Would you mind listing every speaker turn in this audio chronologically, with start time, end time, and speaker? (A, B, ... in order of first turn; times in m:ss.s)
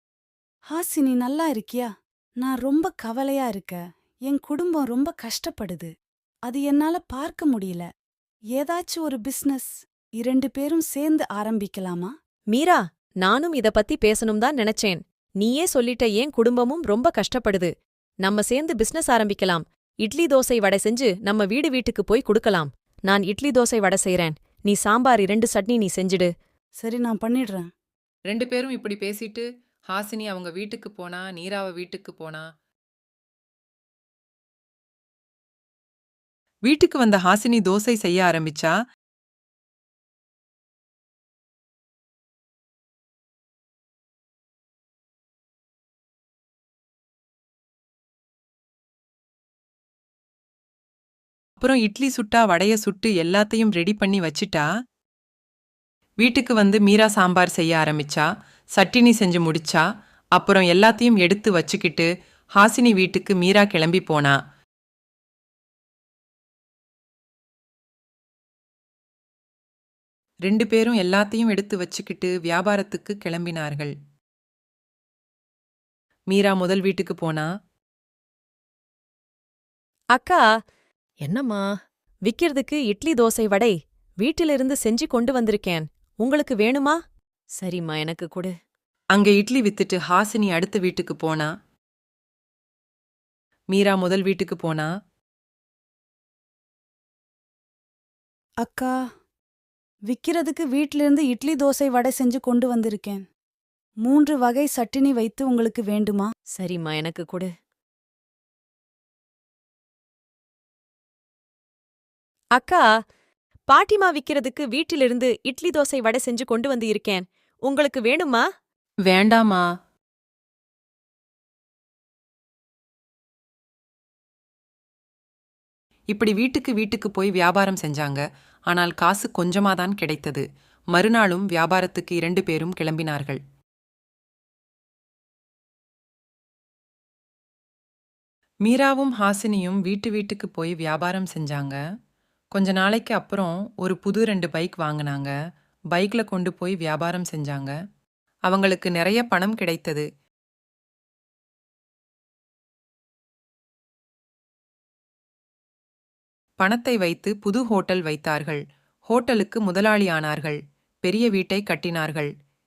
0:00.7-0:01.9 A
0:02.4-0:05.9 A
0:06.5-0:07.8 A
0:08.5-0:12.1 A
0:12.5-0:17.7 B
0:18.2-0:26.3 B
0:26.8-0:27.7 A
0:28.3-0:32.4 C
0:36.6-0:38.7 C
0:51.6-0:54.6 C
0:56.2-0:58.2 C
0:58.8-0:59.8 C
1:00.3-1:04.4 C
1:10.4-1:13.9 C
1:16.3-1:17.5 C
1:20.1-1:20.4 B
1:21.2-1:21.7 B
1:22.2-1:27.0 B
1:27.6-1:28.5 B
1:29.1-1:31.5 C
1:33.7-1:34.9 C
1:38.6-1:38.9 A
1:40.1-1:43.2 A
1:44.0-1:46.3 A
1:46.6-1:47.5 B
1:52.5-1:52.8 B
1:53.7-1:58.4 B
1:59.0-1:59.6 C
2:06.1-2:13.4 C
2:18.6-2:21.8 C
2:22.5-2:25.3 C
2:25.9-2:27.7 C
2:28.4-2:30.0 C
2:36.6-2:42.3 C